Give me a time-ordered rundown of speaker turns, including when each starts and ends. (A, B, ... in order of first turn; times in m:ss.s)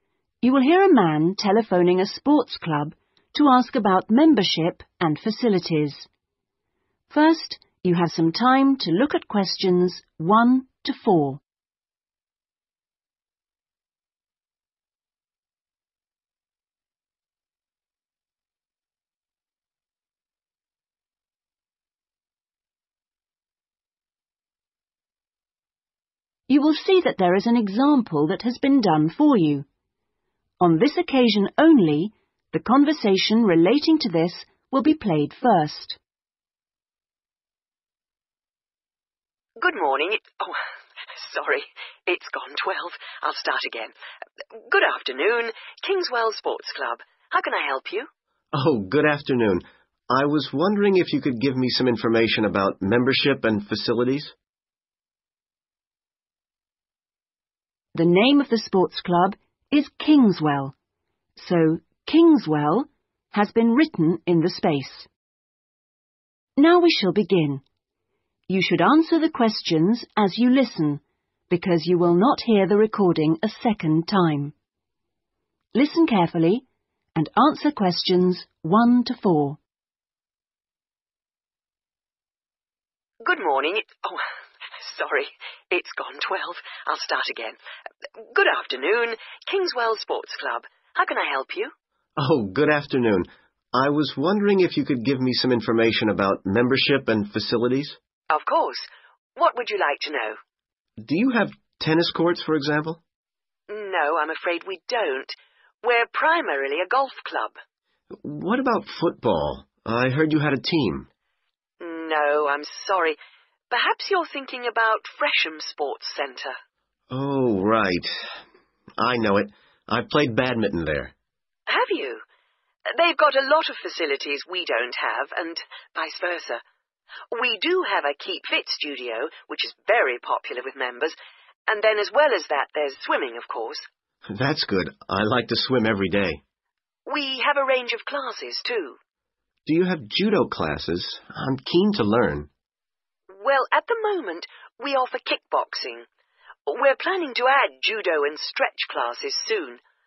0:00.4-0:06.1 A
0:07.1-0:11.4 A
0:26.5-0:29.6 A
0:30.6-0:36.0 A
0:39.6-0:40.6 B
0:41.1-0:43.9 B
0:44.6-0:48.1 B
0:48.5-0:54.3 C
0:57.9-1:00.7 A
1:01.4-1:05.1 A
1:06.6-1:07.6 A
1:08.5-1:14.5 A
1:15.7-1:19.6 A
1:23.2-1:24.2 B
1:24.8-1:27.6 B
1:28.3-1:31.7 B
1:32.2-1:38.0 C
1:38.3-1:40.4 B
1:41.0-1:43.0 C
1:43.7-1:47.6 B
1:48.1-1:51.1 C
1:51.8-1:53.2 B
1:53.7-1:56.6 B
1:57.1-1:58.3 C
1:59.0-2:01.1 C
2:01.7-2:02.2 B
2:02.9-2:06.6 B
2:07.3-2:11.1 B
2:11.7-2:13.8 B
2:14.3-2:16.4 C
2:17.0-2:19.0 B
2:19.6-2:22.5 C
2:23.3-2:26.0 B
2:26.6-2:29.8 B